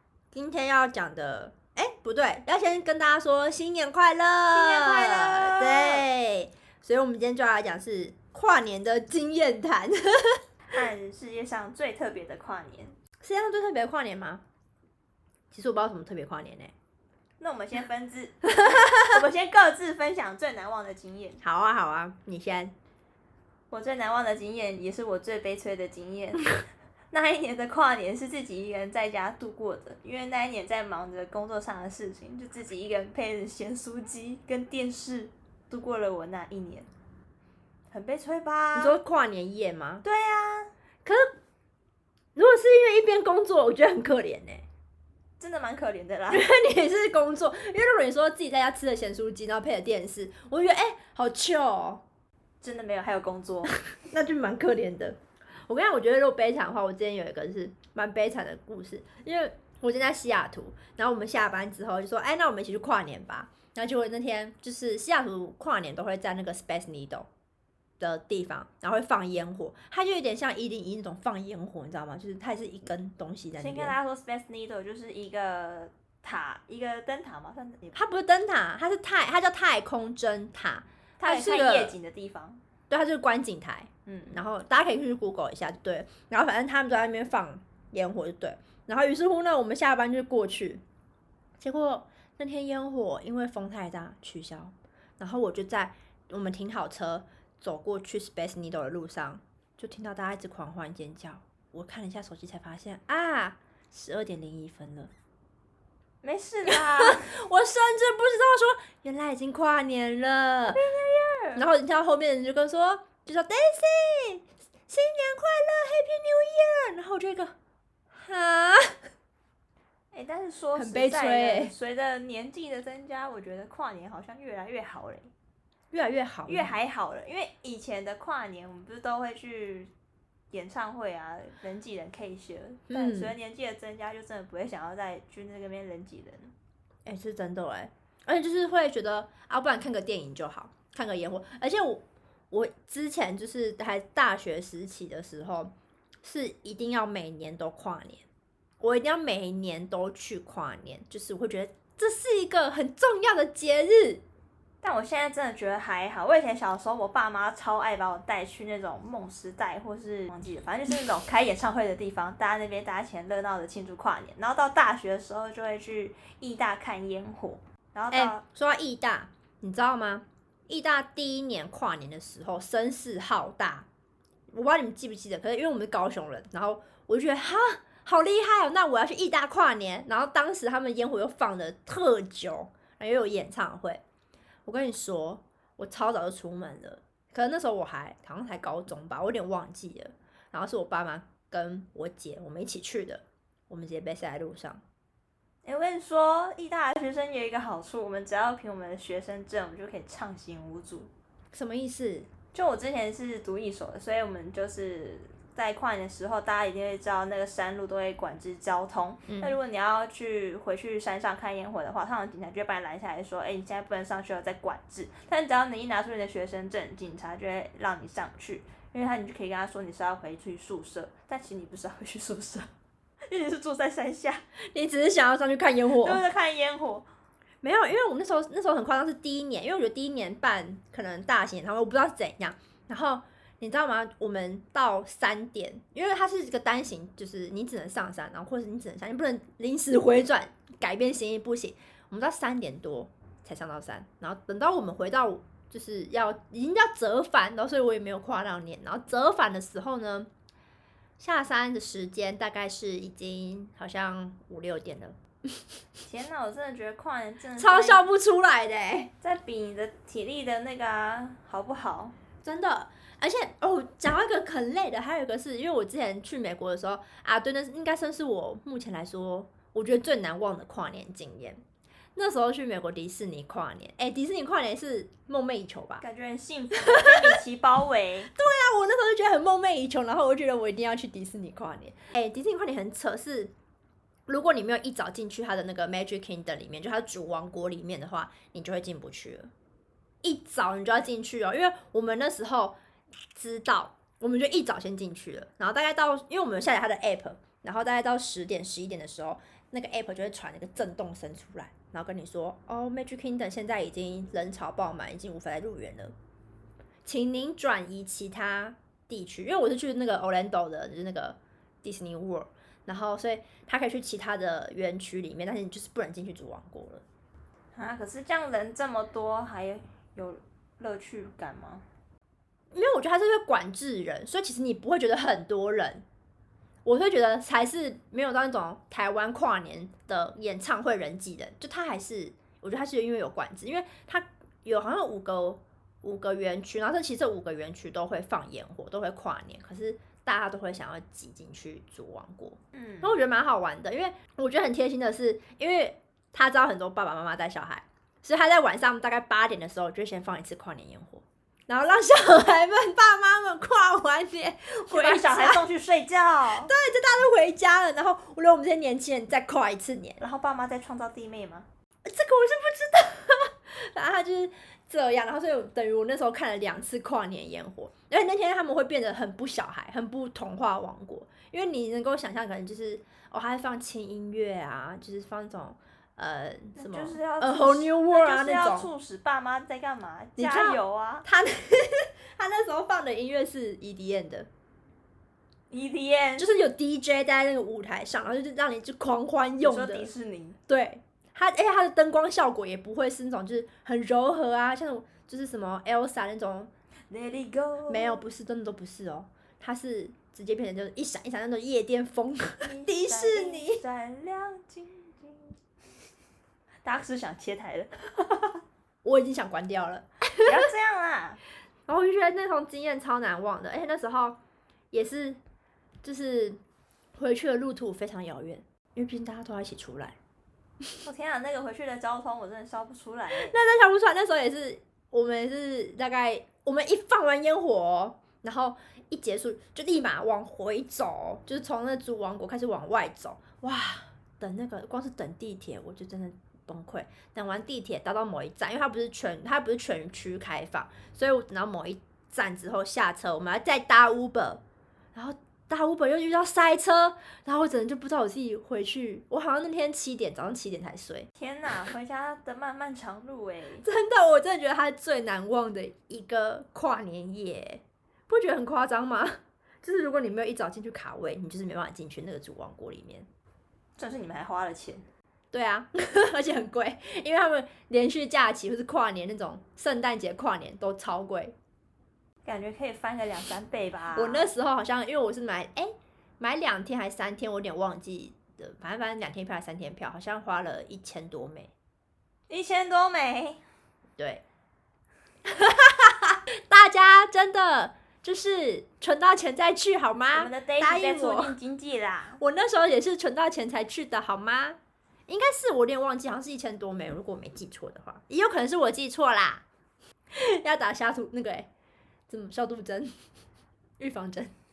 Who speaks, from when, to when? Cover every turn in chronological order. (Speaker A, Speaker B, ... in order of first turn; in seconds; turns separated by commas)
Speaker A: 0.3-10.4, Speaker B: 4.5-6.1, Speaker B: 10.7-12.9, Speaker A: 13.2-14.4, Speaker A: 15.5-16.7, Speaker B: 17.4-21.4, Speaker A: 18.8-19.1, Speaker A: 21.4-22.7, Speaker B: 23.7-26.6, Speaker B: 27.1-36.9, Speaker B: 37.9-39.0, Speaker A: 38.8-40.0, Speaker B: 40.0-40.7, Speaker A: 41.0-41.4, Speaker A: 42.3-44.6, Speaker B: 45.4-46.5, Speaker A: 46.3-52.0, Speaker B: 52.6-53.8, Speaker A: 53.7-67.3, Speaker A: 68.0-73.9, Speaker B: 73.6-78.0, Speaker A: 77.9-82.0, Speaker B: 81.2-82.6, Speaker A: 82.9-90.8, Speaker B: 84.0-84.4, Speaker A: 91.6-105.1, Speaker B: 106.2-107.3, Speaker A: 106.7-110.8, Speaker B: 110.7-111.6, Speaker A: 111.5-117.5, Speaker A: 118.1-119.1, Speaker B: 120.1-125.3, Speaker A: 120.7-121.7, Speaker A: 125.9-126.7, Speaker B: 126.5-129.9, Speaker B: 130.5-136.5, Speaker A: 132.9-133.3, Speaker A: 137.0-148.2, Speaker A: 148.8-154.2, Speaker B: 154.8-168.4, Speaker A: 168.1-173.9, Speaker A: 174.5-184.0, Speaker A: 184.7-194.8, Speaker B: 195.6-201.1, Speaker A: 201.5-202.3, Speaker B: 202.5-222.7, Speaker A: 209.3-209.6, Speaker B: 223.3-224.4, Speaker A: 224.6-226.2, Speaker B: 226.0-227.1, Speaker A: 227.6-250.3, Speaker A: 251.2-255.6, Speaker B: 256.0-258.1, Speaker A: 257.6-259.1, Speaker B: 259.2-262.1, Speaker A: 262.4-271.6, Speaker A: 272.1-276.0, Speaker B: 276.0-278.3, Speaker A: 276.8-277.4, Speaker A: 278.3-283.5, Speaker A: 284.3-289.5, Speaker A: 290.2-292.8, Speaker A: 293.3-306.1, Speaker A: 307.0-317.0, Speaker B: 317.7-321.8, Speaker A: 322.7-326.1, Speaker A: 326.8-355.6, Speaker B: 342.7-343.1, Speaker B: 354.9-356.7, Speaker A: 356.6-360.2, Speaker B: 360.2-361.7, Speaker A: 362.0-378.9, Speaker B: 376.7-381.2, Speaker A: 380.4-384.5, Speaker B: 385.7-386.5, Speaker A: 386.4-390.1, Speaker B: 389.6-390.6, Speaker A: 390.7-396.7, Speaker B: 397.1-398.2, Speaker A: 397.9-403.8, Speaker B: 402.6-405.6, Speaker B: 406.8-408.6, Speaker A: 409.0-410.6, Speaker B: 410.4-411.4, Speaker A: 411.9-414.4, Speaker A: 414.9-415.4, Speaker A: 416.0-416.6, Speaker A: 417.1-420.1, Speaker B: 421.0-423.5, Speaker A: 423.4-444.6, Speaker A: 445.1-451.3, Speaker B: 451.4-453.8, Speaker A: 453.8-463.3, Speaker B: 464.0-465.1, Speaker A: 465.5-471.5, Speaker B: 472.4-474.5, Speaker A: 474.1-481.7, Speaker B: 482.5-483.6, Speaker A: 484.2-484.4, Speaker A: 485.4-491.6, Speaker B: 490.3-492.4, Speaker A: 492.4-499.6, Speaker A: 500.3-501.7, Speaker A: 502.3-503.3, Speaker A: 504.0-504.5